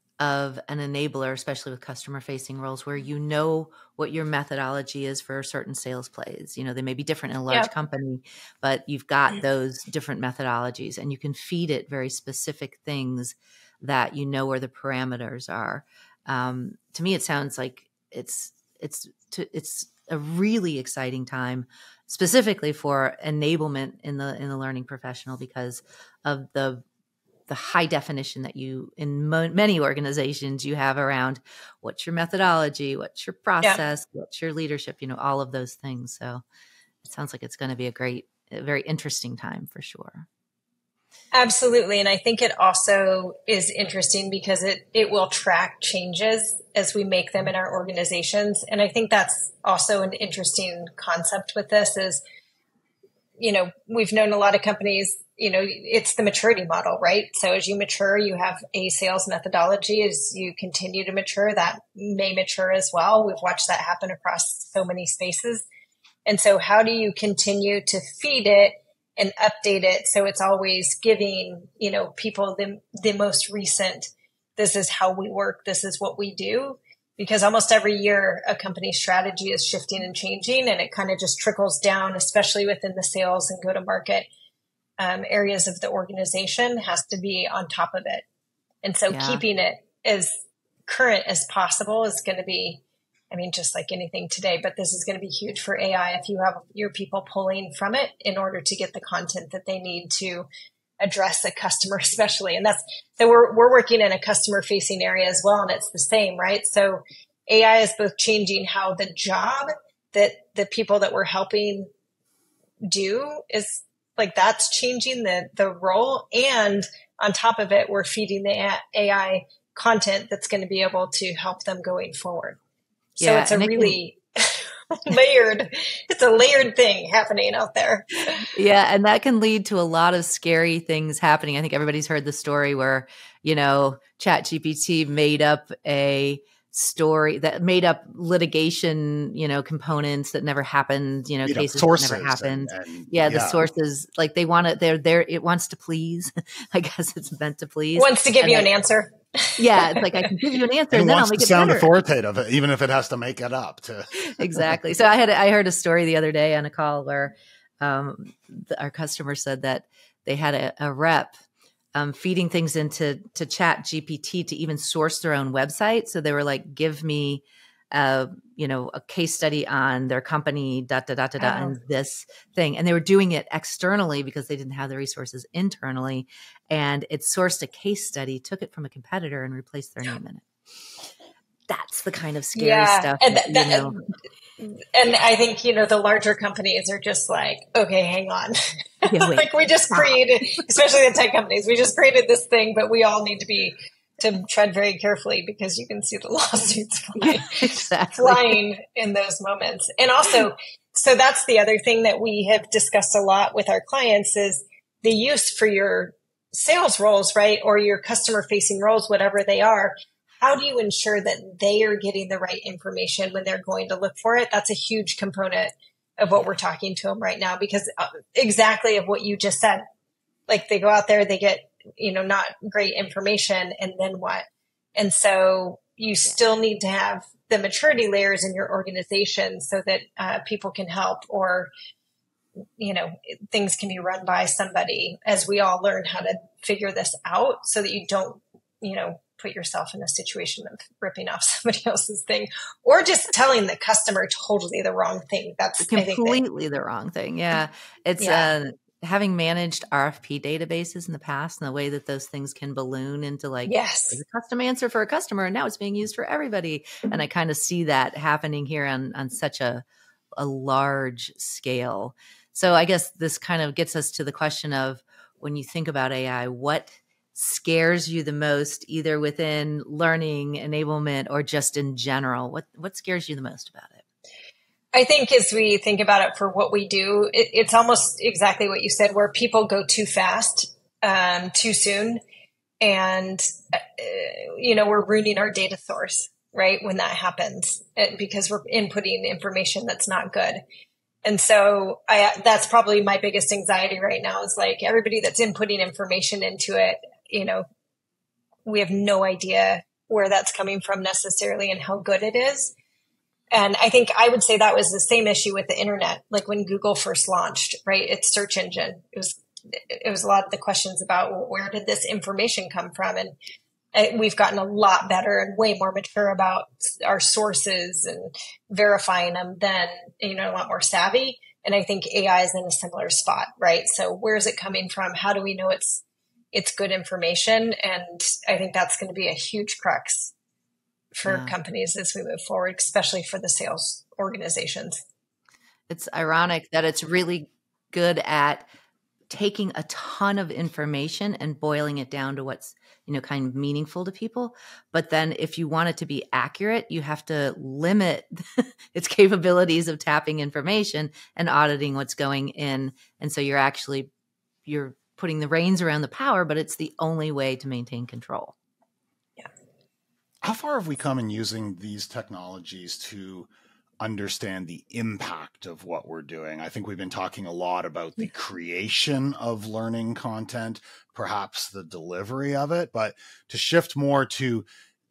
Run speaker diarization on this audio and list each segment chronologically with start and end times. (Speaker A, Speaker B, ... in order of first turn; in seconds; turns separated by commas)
Speaker A: 0.2-26.8, Speaker A: 27.5-36.4, Speaker A: 37.0-40.3, Speaker B: 41.3-52.2, Speaker B: 53.4-65.7, Speaker B: 66.3-84.3, Speaker B: 85.0-88.2, Speaker B: 88.8-100.5, Speaker A: 89.1-89.4, Speaker B: 101.0-111.9, Speaker B: 112.9-122.6, Speaker A: 123.2-124.0, Speaker B: 123.2-128.5, Speaker A: 128.5-148.7, Speaker C: 141.4-143.6, Speaker B: 148.0-150.4, Speaker A: 149.6-151.9, Speaker C: 150.9-154.8, Speaker A: 154.2-161.3, Speaker A: 161.9-180.4, Speaker B: 171.4-171.8, Speaker A: 181.7-184.0, Speaker B: 182.6-184.0, Speaker B: 184.6-219.8, Speaker A: 189.1-190.5, Speaker A: 197.2-198.6, Speaker B: 220.5-231.7, Speaker B: 232.8-246.4, Speaker A: 245.8-259.8, Speaker B: 248.2-248.5, Speaker B: 253.7-254.2, Speaker A: 260.4-274.0, Speaker B: 274.9-282.2, Speaker B: 282.8-290.6, Speaker B: 291.2-297.6, Speaker B: 298.7-302.7, Speaker B: 303.5-313.3, Speaker B: 313.9-330.3, Speaker B: 331.2-335.0, Speaker A: 331.2-331.5, Speaker A: 335.9-338.7, Speaker A: 339.3-354.1, Speaker A: 354.7-358.6, Speaker C: 360.4-363.5, Speaker C: 364.0-374.6